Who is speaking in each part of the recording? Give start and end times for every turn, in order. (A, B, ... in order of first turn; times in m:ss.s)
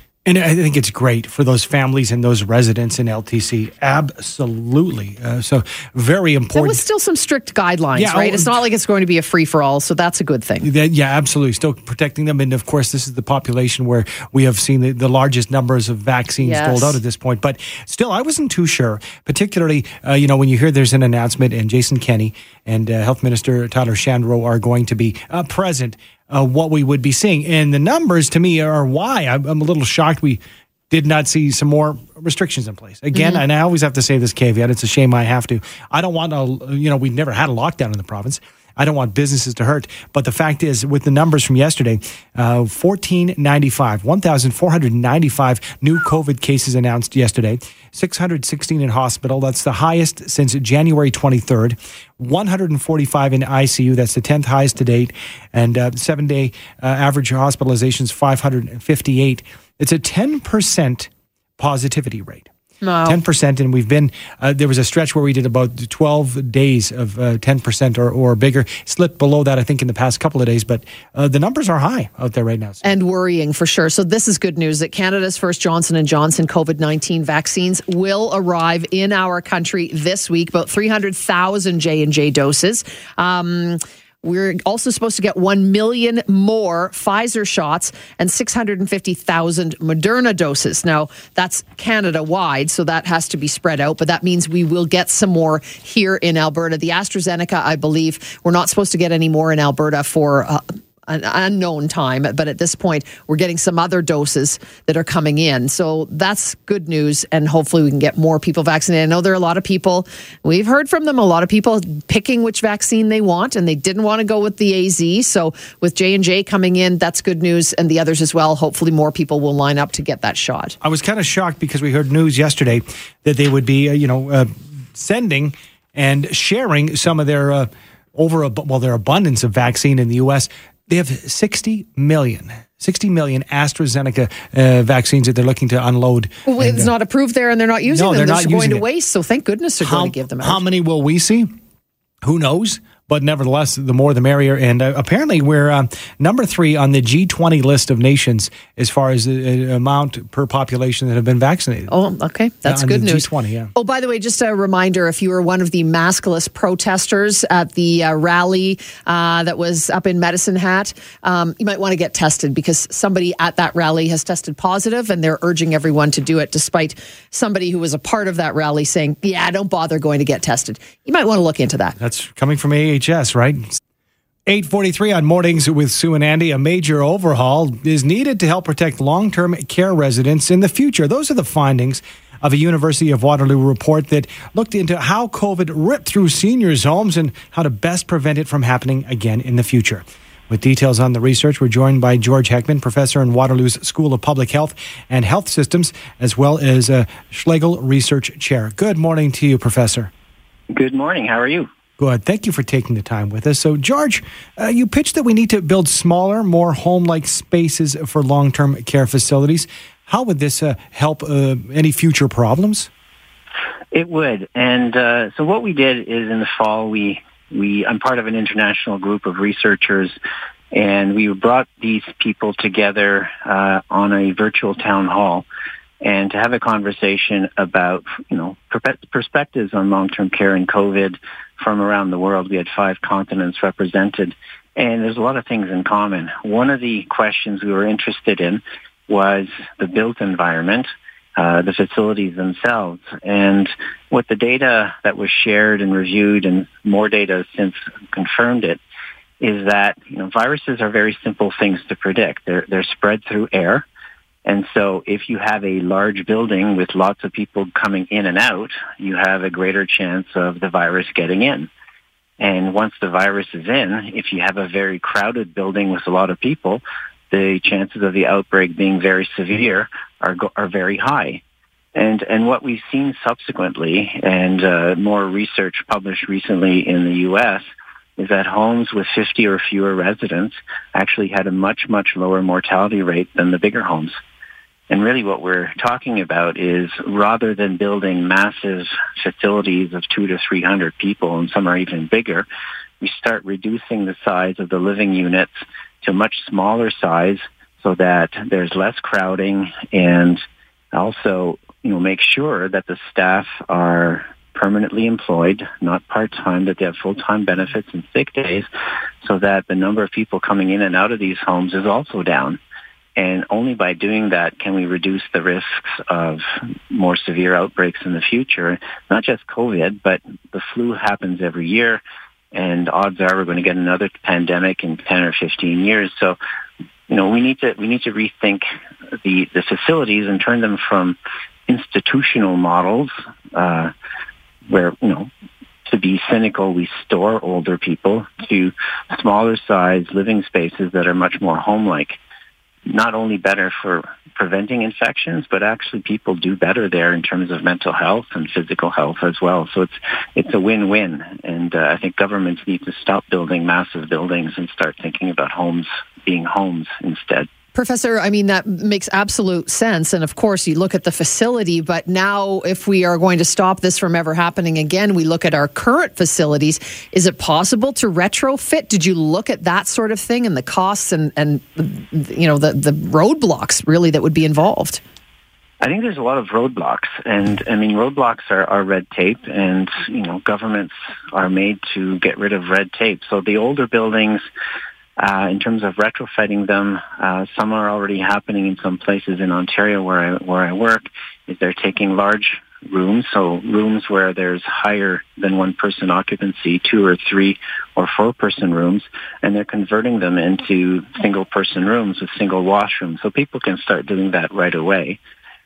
0:00.2-0:06.8 A
0:06.5-0:10.7 B
0:08.0-0:08.6 A
0:10.6-1:02.5 A
0:16.4-0:17.0 B
0:33.1-0:33.4 B
1:02.8-1:03.2 B
1:03.0-1:12.8 A
1:12.8-2:00.8 B
2:00.8-2:16.9 A
2:16.4-2:20.6 B
2:17.9-2:18.8 A
2:19.8-2:21.5 A
2:22.2-2:31.9 A
2:31.9-2:52.0 B
2:32.6-2:33.7 A
2:52.0-2:53.8 A
2:54.5-3:20.1 A
3:20.7-3:21.7 C
3:22.0-3:32.9 A
3:33.9-3:40.2 C
3:40.7-3:45.4 C
3:46.0-4:08.8 C
4:09.4-4:13.8 C
4:14.4-4:21.7 C
4:22.4-4:31.4 C
4:31.9-4:37.6 C
4:38.2-4:44.2 C
4:44.9-4:52.5 C
4:53.0-5:08.7 C
5:09.2-5:12.6 C
5:13.2-5:22.0 C
5:22.5-5:26.4 C
5:27.1-5:28.6 C
5:29.2-5:33.9 C
5:34.7-5:35.3 C
5:35.8-5:42.2 C
5:42.9-5:57.5 C
5:57.7-6:15.0 B
6:15.8-6:24.4 C
6:25.2-6:45.2 C